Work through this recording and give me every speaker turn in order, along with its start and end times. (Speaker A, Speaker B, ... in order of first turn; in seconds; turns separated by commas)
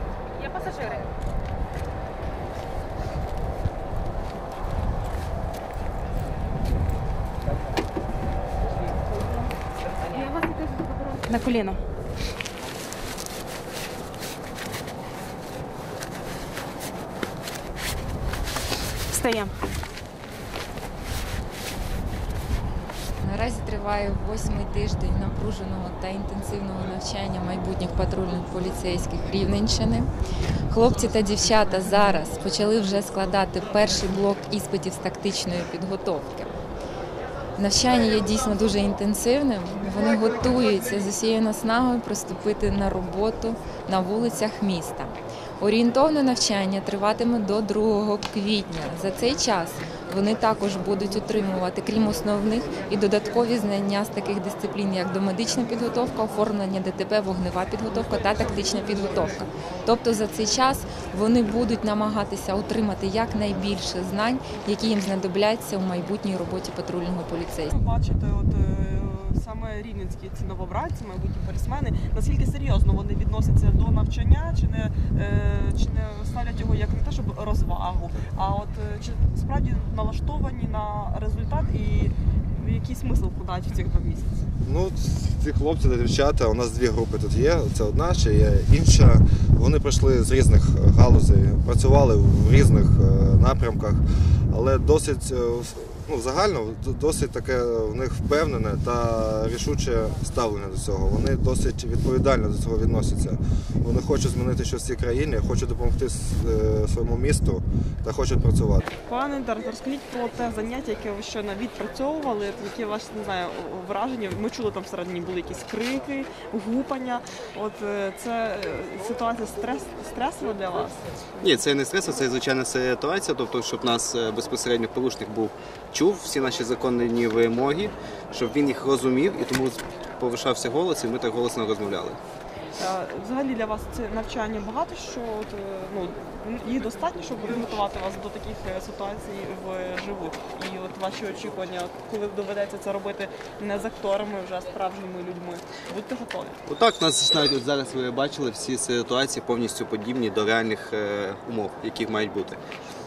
Speaker A: 0.4-1.1, Speaker A: 10.5-11.8, Speaker A: 19.1-19.5, Speaker B: 23.2-30.1, Speaker B: 30.7-36.5, Speaker B: 37.6-67.8, Speaker C: 67.7-84.5, Speaker D: 84.6-108.9, Speaker C: 109.0-121.0, Speaker E: 121.4-132.2, Speaker C: 132.8-146.6, Speaker E: 146.7-152.6